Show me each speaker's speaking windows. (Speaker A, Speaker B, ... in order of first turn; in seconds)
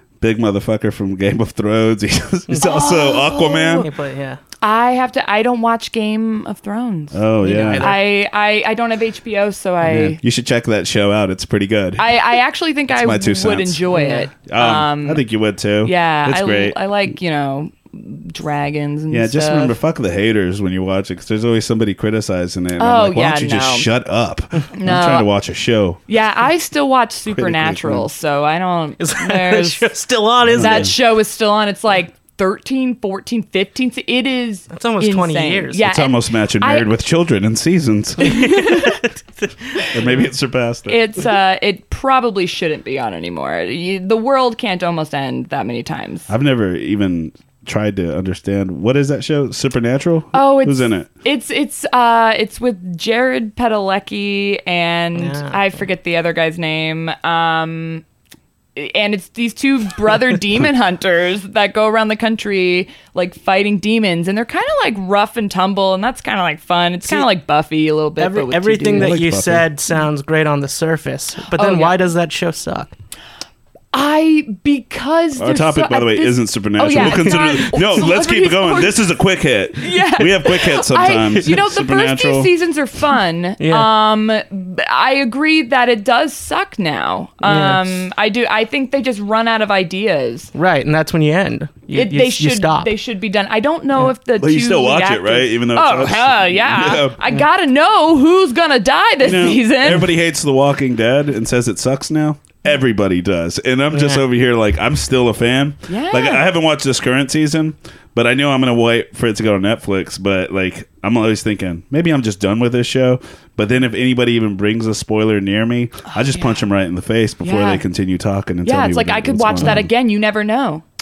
Speaker A: 0.2-3.9, 7.1-8.0, 9.8-12.2, 12.9-13.9, 14.5-16.8, 19.1-26.0, 27.3-28.1, 30.5-30.9, 35.8-38.5, 39.9-41.0, 46.3-51.1, 68.9-69.7, 75.4-82.5, 94.4-97.2, 99.2-119.9
Speaker B: 2.6-3.9, 4.6-10.2, 12.0-15.2, 15.8-19.8, 22.8-23.9, 24.8-25.3, 26.1-29.9, 30.6-36.9, 38.2-39.0, 40.9-46.3, 50.3-58.0, 58.8-69.2, 71.5-72.0, 73.9-79.0, 79.8-90.5, 91.9-100.1, 105.9-106.5, 116.1-116.6, 117.4-117.8, 118.6-120.8
Speaker C: 3.7-4.4, 7.4-8.0, 13.9-14.3, 29.0-30.9, 34.7-35.8, 38.4-39.2, 55.2-55.6, 68.2-72.9, 83.6-83.9, 87.5-88.0, 90.5-92.9, 103.9-104.2